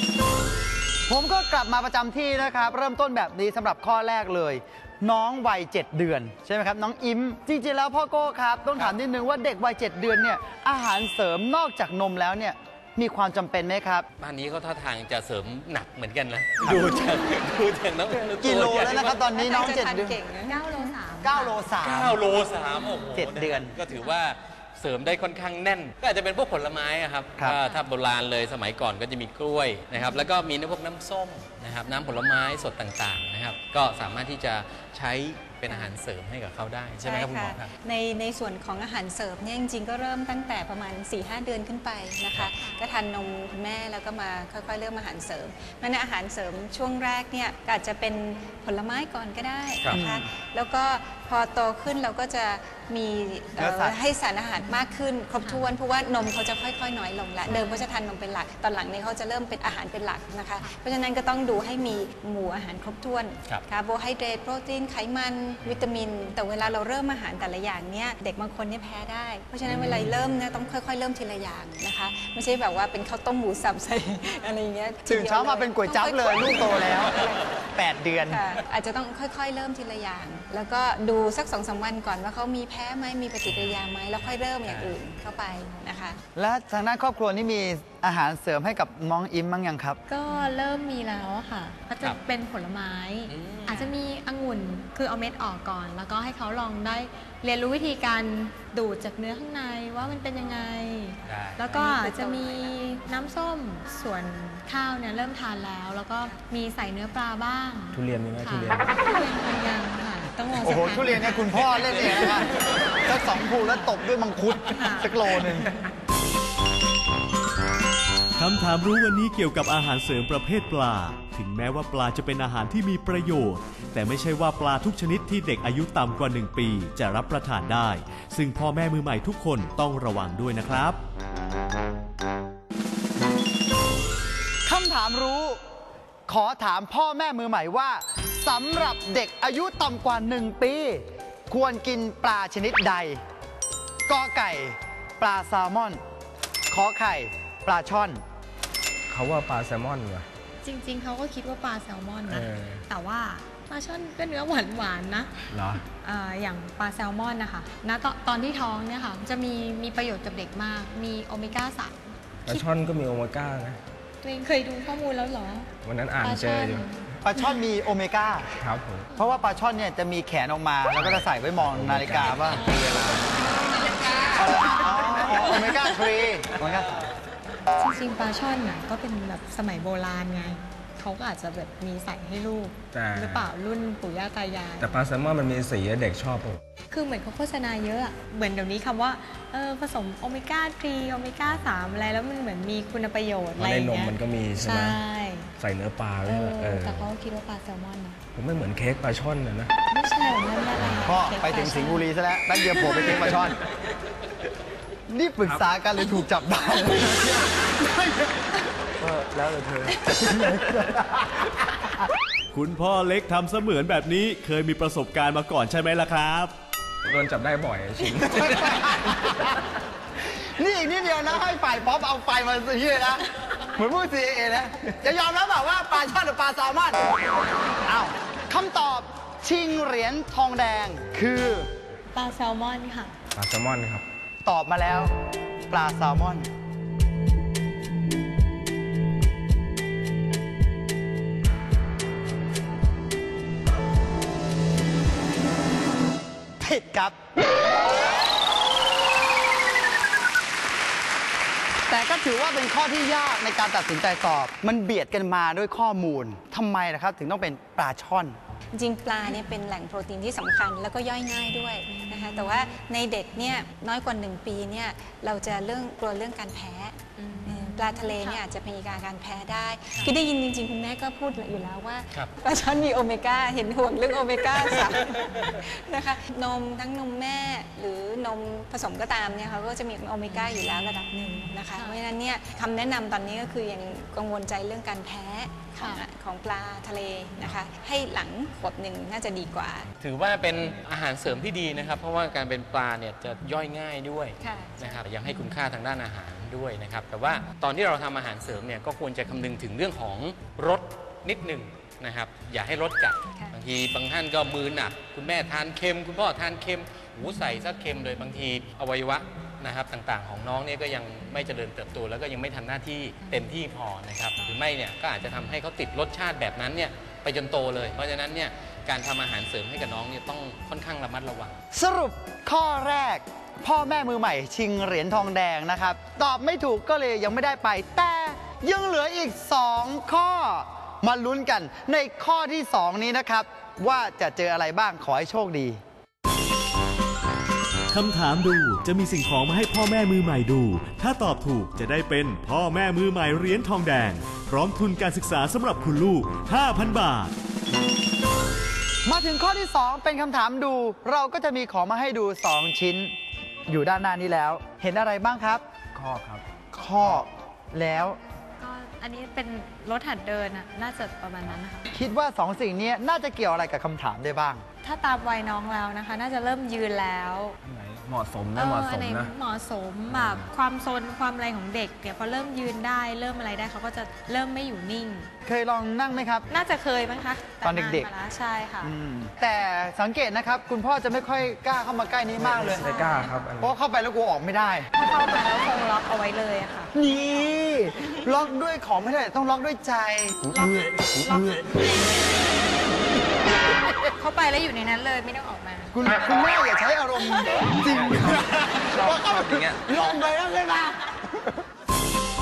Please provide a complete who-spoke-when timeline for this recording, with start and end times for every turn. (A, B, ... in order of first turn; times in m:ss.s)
0:01.1-0:14.0 A
0:14.2-0:19.2 B
0:16.6-0:17.0 A
0:18.4-0:20.2 A
0:19.3-0:20.9 C
0:20.5-0:21.6 D
0:21.2-0:22.2 A
0:21.8-0:37.7 B
0:23.1-0:23.8 A
0:37.0-1:17.5 C
0:49.9-0:50.2 A
0:53.6-0:54.0 A
0:55.4-0:55.6 D
1:15.1-1:17.2 A
1:17.7-1:18.4 A
1:18.2-1:26.2 C
1:24.6-1:25.0 B
1:26.3-1:30.0 A
1:30.1-1:51.5 D
1:33.3-1:33.9 B
1:41.2-1:41.8 B
1:41.7-1:42.7 C
1:47.9-1:48.8 E
1:50.5-1:55.7 A
1:54.7-1:55.1 D
1:58.4-2:11.0 F
2:14.6-2:15.6 A
2:16.3-2:23.2 A
2:24.1-2:26.0 A
2:26.7-2:28.2 A
2:29.1-2:30.3 E
2:30.6-2:35.3 D
2:32.3-2:32.8 E
2:35.5-2:35.8 E
2:35.8-2:42.6 D
2:42.4-2:43.8 E
2:44.2-2:45.7 D
2:45.8-2:46.9 E
2:46.2-2:47.0 D
2:47.2-2:48.5 A
2:48.6-2:49.1 E
2:49.1-2:52.6 A
2:51.0-2:53.2 E
2:52.0-2:54.4 B
2:54.3-2:57.1 A
2:57.8-3:04.9 D
3:02.9-3:03.5 E
3:04.8-3:06.6 E
3:06.9-3:15.5 D
3:13.6-3:15.0 E
3:15.6-3:17.1 E
3:16.2-3:18.2 D
3:18.3-3:19.7 E
3:19.9-3:22.0 D
3:21.0-3:23.6 A
3:22.6-3:23.2 D
3:25.1-3:28.4 A
3:29.0-3:32.0 A
3:32.5-3:36.5 F
3:37.0-3:38.9 E
3:38.3-3:39.6 A
3:40.2-3:47.0 A
3:47.8-3:51.7 A
3:52.1-3:53.2 D
3:53.3-3:54.0 E
3:54.4-3:55.1 A
3:55.7-3:56.5 A
4:06.6-4:07.2 A
4:11.9-4:18.4 A
4:18.7-4:49.9 C
4:21.8-4:22.7 D
4:27.2-4:28.4 D
4:41.7-4:42.0 D
4:45.8-4:46.0 D
4:50.0-5:21.6 B
4:54.4-4:55.0 C
5:21.7-5:35.8 A
5:37.9-5:47.3 F
5:49.0-5:53.1 A
5:53.7-5:55.6 A
5:55.9-5:56.4 E
5:56.7-5:58.2 A
5:58.6-6:01.9 D
6:01.9-6:04.6 A
6:04.8-6:07.6 D
6:07.6-6:09.3 E
6:08.5-6:15.3 D
6:10.1-6:10.5 E
6:15.4-6:16.5 A
6:16.5-6:18.9 D
6:17.6-6:18.1 A
6:18.8-6:22.8 A
6:22.4-6:23.7 E
6:22.8-6:23.3 D
6:23.6-6:24.9 A
6:24.9-6:26.9 D
6:26.9-6:30.8 A
6:30.5-6:32.2 D
6:34.0-6:35.9 D
6:35.9-6:41.5 A
6:37.8-6:39.8 E